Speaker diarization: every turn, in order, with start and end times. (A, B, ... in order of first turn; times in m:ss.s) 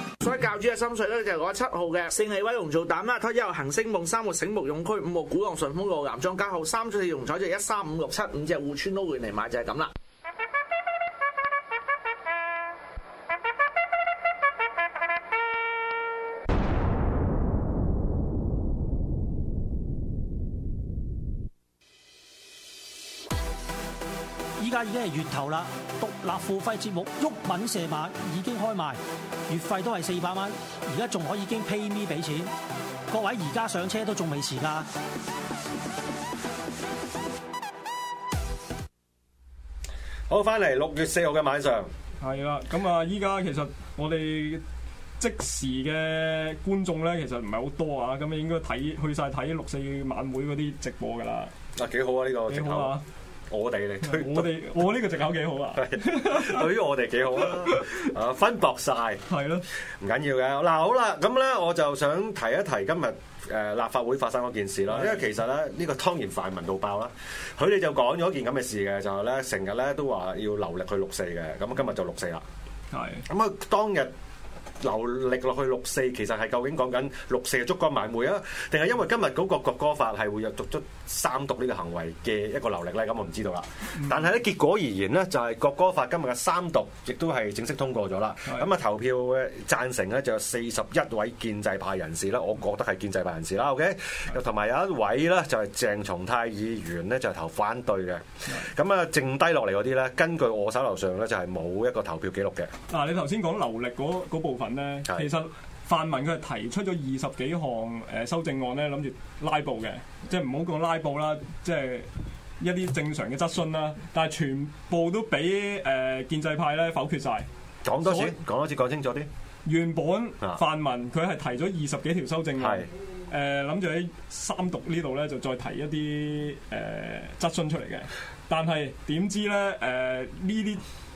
0:00.2-0:09.9 A
0:24.6-0:32.5 B
0:33.1-0:34.9 B
0:40.3-0:41.9 C
0:42.2-0:44.6 D
0:45.2-0:51.5 D
0:51.7-0:52.9 C
0:52.5-0:53.0 D
0:53.5-0:54.6 C
0:54.0-0:56.7 D
0:55.8-0:59.3 C
0:57.4-0:58.1 D
0:59.3-0:59.6 D
1:00.0-1:12.4 C
1:04.9-1:05.2 D
1:12.9-1:13.2 D
1:13.3-1:14.1 C
1:14.8-1:42.7 C
1:42.9-1:52.1 D
1:45.0-1:45.3 C
1:52.6-1:57.5 D
1:57.8-1:59.3 C
1:58.0-1:58.3 D
1:59.6-2:10.8 D
2:02.6-2:02.9 C